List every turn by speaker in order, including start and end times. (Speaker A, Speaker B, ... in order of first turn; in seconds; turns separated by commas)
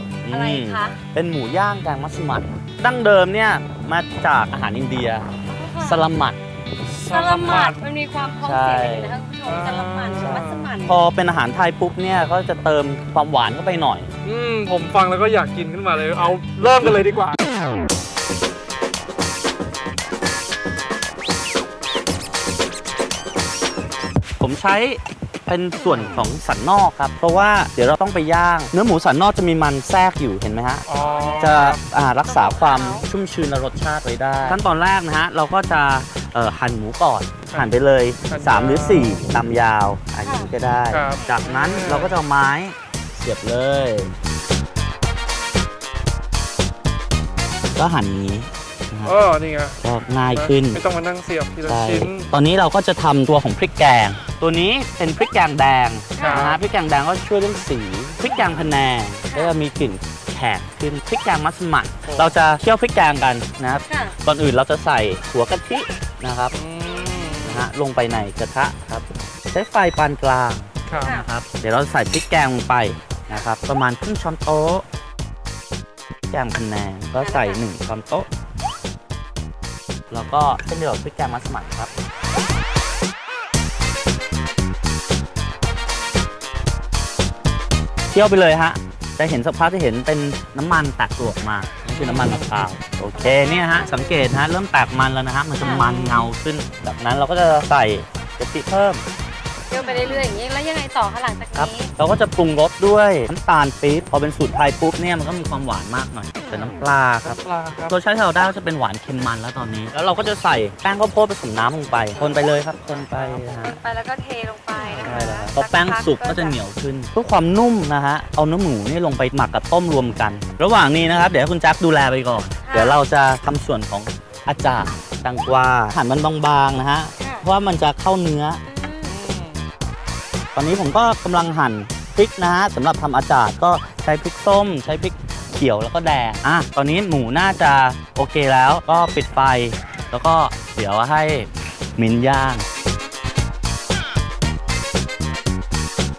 Speaker A: 0.2-5.3, Speaker B: 0.3-1.0, Speaker B: 5.5-6.1, Speaker A: 5.8-6.4, Speaker C: 6.9-7.8, Speaker B: 7.0-11.0, Speaker A: 8.4-9.2, Speaker C: 9.4-10.6, Speaker A: 10.2-14.1, Speaker C: 14.2-17.4, Speaker A: 24.4-30.8, Speaker C: 30.9-31.8, Speaker B: 30.9-33.1, Speaker A: 31.4-44.1, Speaker C: 38.2-39.2, Speaker B: 40.2-41.4, Speaker C: 40.9-42.2, Speaker A: 47.7-49.2, Speaker C: 49.0-52.3, Speaker A: 49.8-50.8, Speaker A: 51.6-66.5, Speaker B: 56.1-56.5, Speaker C: 56.2-56.6, Speaker C: 58.4-58.7, Speaker B: 59.2-59.6, Speaker C: 62.0-62.4, Speaker B: 63.9-64.2, Speaker C: 66.5-67.7, Speaker A: 67.4-74.8, Speaker C: 70.9-71.2, Speaker B: 71.0-71.3, Speaker A: 76.3-78.3, Speaker B: 77.2-77.6, Speaker A: 80.1-81.9, Speaker A: 88.1-99.0, Speaker C: 91.9-92.7, Speaker B: 93.1-94.3, Speaker C: 95.6-96.3, Speaker B: 99.7-101.9, Speaker A: 101.5-113.8, Speaker C: 107.2-107.9, Speaker B: 112.2-112.4, Speaker C: 113.0-113.4, Speaker B: 113.4-116.6, Speaker A: 115.0-128.6, Speaker B: 122.6-123.0, Speaker B: 127.2-127.5, Speaker B: 128.6-129.2, Speaker C: 129.1-129.7, Speaker A: 130.6-142.6